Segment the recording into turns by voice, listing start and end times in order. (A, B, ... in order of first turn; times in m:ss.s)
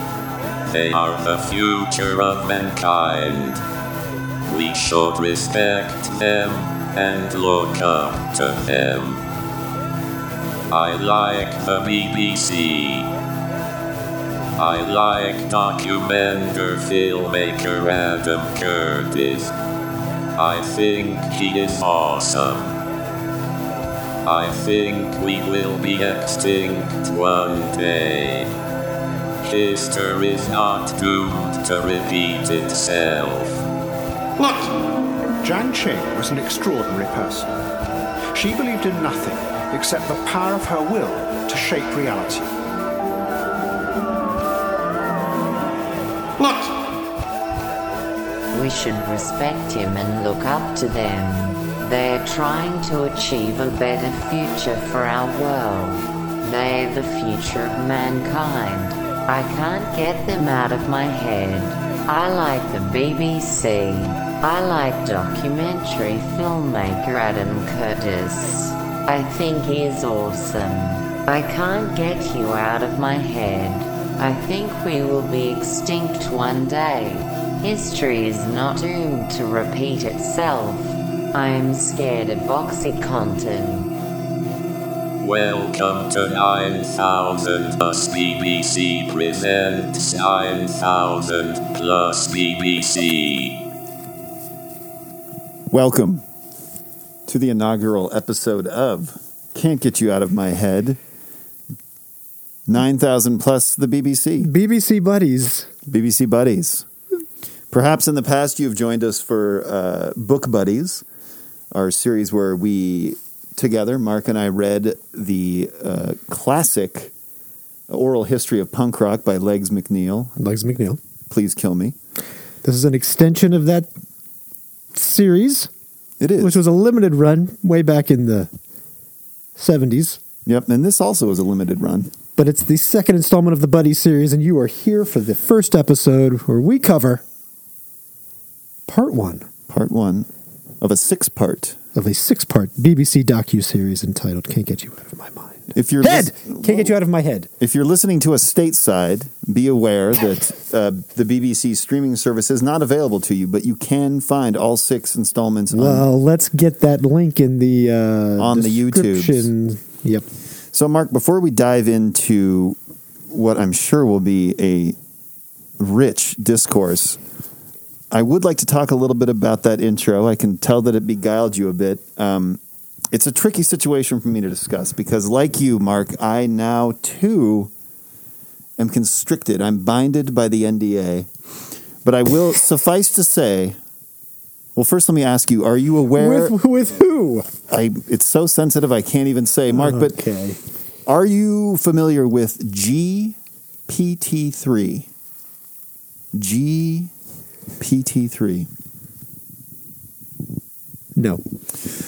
0:00.7-0:03.6 A
0:04.4-0:09.2 A
0:10.7-0:13.1 A
0:14.6-0:19.5 A
0:20.3-0:22.8 A
0:24.2-0:28.5 A
0:29.5-0:33.6 A
0:34.4-0:34.8 B
0:35.4-0:37.5 B
0:38.3-0:42.5 B
0:46.4-0:46.8 B
0:48.5-1:23.9 C
1:25.2-1:33.6 A
1:35.7-1:36.2 D
1:37.3-1:41.0 D
1:42.7-1:44.5 D
1:44.4-1:45.7 E
1:45.9-1:46.8 D
1:47.7-1:51.0 D
1:51.7-1:57.1 D
1:57.9-2:00.3 D
2:00.4-2:01.0 E
2:01.3-2:01.9 D
2:02.6-2:03.9 E
2:04.9-2:05.7 E
2:06.2-2:06.6 D
2:06.4-2:08.5 E
2:09.6-2:10.2 E
2:10.4-2:12.1 D
2:12.4-2:17.2 E
2:18.9-2:19.4 E
2:19.7-2:20.3 D
2:20.8-2:21.8 D
2:21.9-2:27.5 E
2:25.7-2:26.9 D
2:27.6-2:36.1 D
2:35.7-2:40.2 E
2:38.4-2:39.5 D
2:40.7-2:42.8 D
2:43.3-2:45.0 D
2:45.8-2:47.2 D
2:48.1-2:57.7 D
2:58.8-3:01.3 D
3:02.0-3:03.8 D
3:04.8-3:06.5 D
3:06.2-3:07.5 E
3:07.7-3:10.2 D
3:09.7-3:10.6 E
3:11.0-3:13.4 D
3:13.9-3:15.1 D
3:16.3-3:17.1 D
3:17.8-3:18.7 D
3:21.2-3:21.4 E